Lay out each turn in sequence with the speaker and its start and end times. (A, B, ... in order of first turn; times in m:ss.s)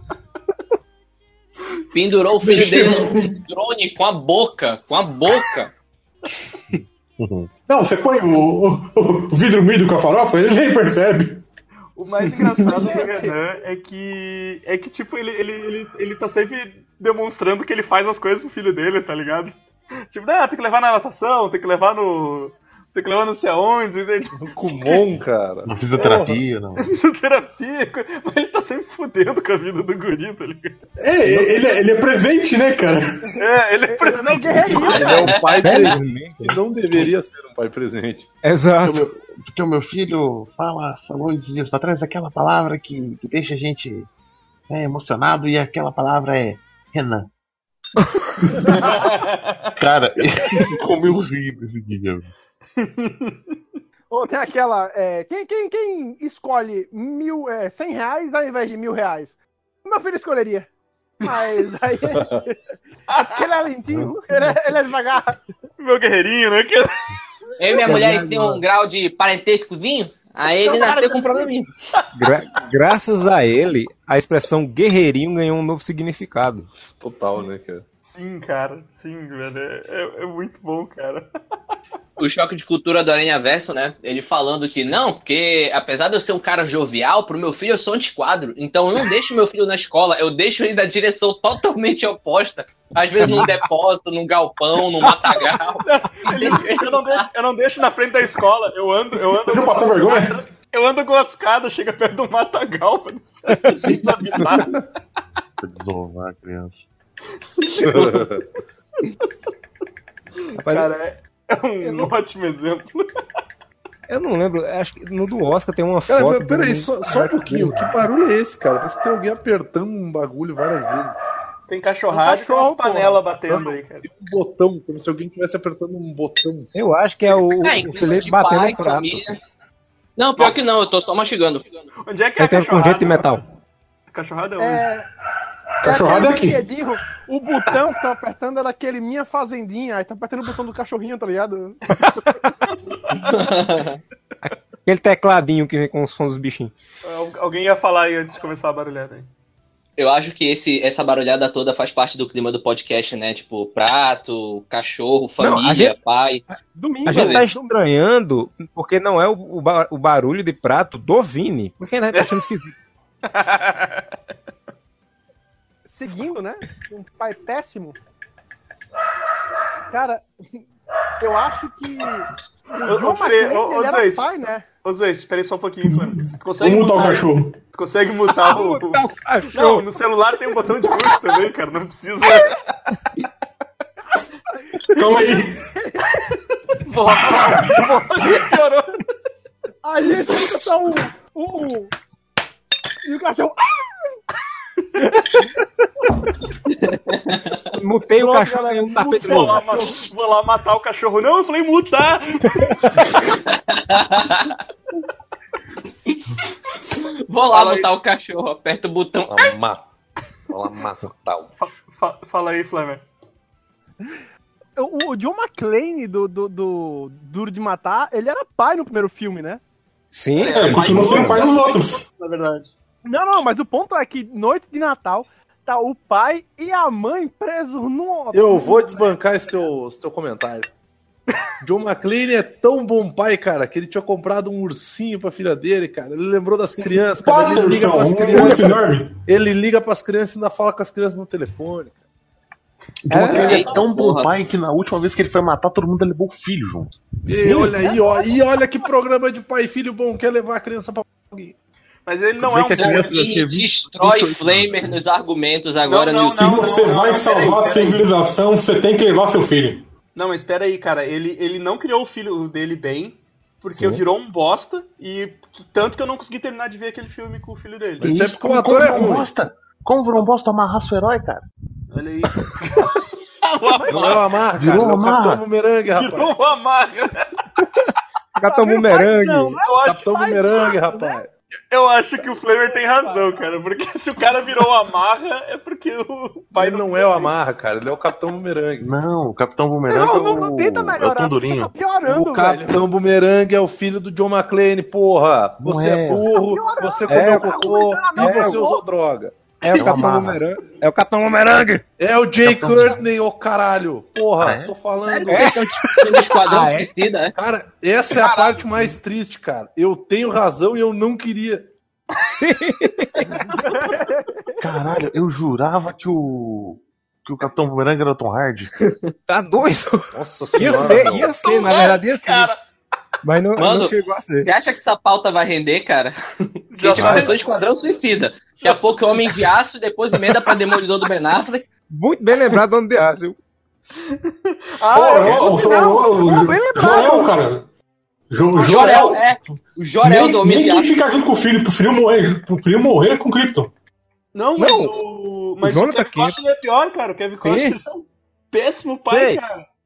0:01.9-0:05.7 A
0:02.4-0:03.4 B
0:06.7-0:07.5 C
0:07.7-0:11.4 B
0:12.0-0:19.6 D
0:12.8-0:13.3 E
0:20.1-0:25.1 D
0:24.4-0:26.4 F
0:25.6-0:26.9 C
0:26.8-0:31.6 D
0:31.0-0:33.3 B
0:33.4-0:35.2 D
0:33.9-0:35.2 E
0:34.8-0:38.3 F
0:34.8-0:36.0 A
0:35.6-0:36.6 G
0:38.4-0:39.1 G
0:38.8-0:44.1 C
0:44.7-0:47.3 C
0:48.7-0:49.0 C
0:48.8-0:49.7 D
0:49.8-0:52.3 C
0:52.8-0:53.4 D
0:54.1-1:00.7 E
1:01.2-1:02.6 E
1:01.2-1:01.5 D
1:03.1-1:03.4 D
1:03.2-1:05.4 E
1:05.8-1:07.0 D
1:07.6-1:11.7 A
1:07.8-1:08.6 G
1:10.8-1:11.2 E
1:12.1-1:16.7 G
1:17.0-1:17.8 F
1:17.1-1:17.4 D
1:18.0-1:21.3 D
1:22.2-1:37.3 A
1:33.0-1:33.5 G
1:35.8-1:44.8 D
1:39.5-1:40.4 B
1:45.6-1:46.9 C
1:47.6-1:48.2 D
1:47.8-1:48.4 F
1:50.5-1:53.0 D
1:50.6-1:50.9 G
1:54.1-1:58.0 G
1:56.1-2:01.2 F
2:01.7-2:04.1 D
2:02.1-2:03.5 E
2:03.5-2:06.7 F
2:06.7-2:09.2 G
2:07.6-2:09.4 A
2:10.2-2:11.9 A
2:10.4-2:10.7 D
2:12.0-2:13.4 D
2:12.4-2:13.4 G
2:14.1-2:14.8 D
2:14.6-2:15.1 E
2:15.8-2:16.6 B
2:15.8-2:21.8 E
2:22.7-2:23.3 D
2:23.3-2:24.0 A
2:24.8-2:26.7 G
2:27.0-2:29.3 D
2:30.0-2:36.4 A
2:35.4-2:35.9 G
2:36.7-2:37.6 E
2:37.0-2:42.7 G
2:37.1-2:37.4 A
2:43.2-2:44.0 D
2:45.8-2:48.0 E
2:49.9-2:50.6 E
2:51.2-2:54.6 E
2:52.8-2:54.3 D
2:54.8-3:02.7 D
2:55.8-2:57.6 B
2:58.4-2:59.9 G
3:04.9-3:06.1 E
3:04.9-3:05.6 B
3:06.3-3:09.0 D
3:09.8-3:11.9 E
3:13.0-3:14.2 E
3:16.8-3:17.6 A
3:17.7-3:19.7 G
3:18.2-3:20.0 E
3:19.2-3:23.0 D
3:23.7-3:24.6 A
3:27.3-3:29.5 A
3:27.5-3:27.9 D
3:30.5-3:31.4 C
3:31.6-3:33.0 D
3:34.8-3:39.6 E
3:40.1-3:41.3 G
3:40.4-3:42.7 D
3:40.4-3:41.0 A
3:40.5-3:42.0 B
3:43.0-3:49.1 E
3:48.3-3:50.7 F
3:51.6-4:01.9 F
3:57.2-3:59.2 B
3:58.3-3:58.7 G
4:03.0-4:07.0 C
4:03.1-4:03.6 G
4:03.3-4:04.3 A
4:03.4-4:03.8 D
4:07.2-4:11.5 F
4:07.4-4:08.9 E
4:12.0-4:13.2 D
4:12.4-4:15.0 C
4:12.7-4:16.4 A
4:15.8-4:18.1 D
4:16.3-4:19.8 B
4:20.1-4:28.1 D
4:23.7-4:24.0 G
4:28.0-4:29.3 F
4:28.0-4:31.4 C
4:31.9-4:34.4 D
4:33.7-4:34.2 E
4:33.9-4:36.3 F
4:34.6-4:35.4 C
4:35.9-4:37.3 D
4:38.4-4:39.6 G
4:38.4-4:41.2 E
4:39.6-4:40.7 D
4:39.8-4:41.3 F
4:41.7-4:47.3 D
4:42.9-4:43.2 E
4:46.6-4:48.9 F
4:48.8-4:51.7 C
4:49.9-4:52.8 E
4:52.1-4:59.4 F
4:55.6-4:56.2 C
4:56.1-4:58.8 E
4:57.1-4:57.5 G
4:58.2-4:58.6 G
4:59.6-5:01.8 G
4:59.6-5:00.4 C
5:02.0-5:05.5 F
5:02.4-5:03.0 C
5:04.4-5:04.7 C
5:04.9-5:07.3 A
5:05.3-5:06.9 G
5:07.3-5:11.7 F
5:08.1-5:08.9 D
5:12.2-5:13.3 G
5:13.2-5:14.0 D
5:13.6-5:14.5 E
5:14.6-5:18.9 C
5:19.3-5:22.5 G
5:20.1-5:21.4 F
5:21.4-5:22.6 D
5:23.2-5:24.5 G
5:23.6-5:26.2 A
5:26.7-5:27.5 D
5:26.8-5:31.7 A
5:27.0-5:27.3 C
5:31.9-5:33.4 G
5:34.1-5:36.2 D
5:34.9-5:37.6 B
5:35.6-5:37.3 E
5:38.3-5:43.7 B
5:38.5-5:40.9 A
5:44.3-5:49.6 D
5:44.6-5:44.9 G
5:45.6-5:46.4 G
5:47.4-5:47.7 G
5:49.1-5:49.4 G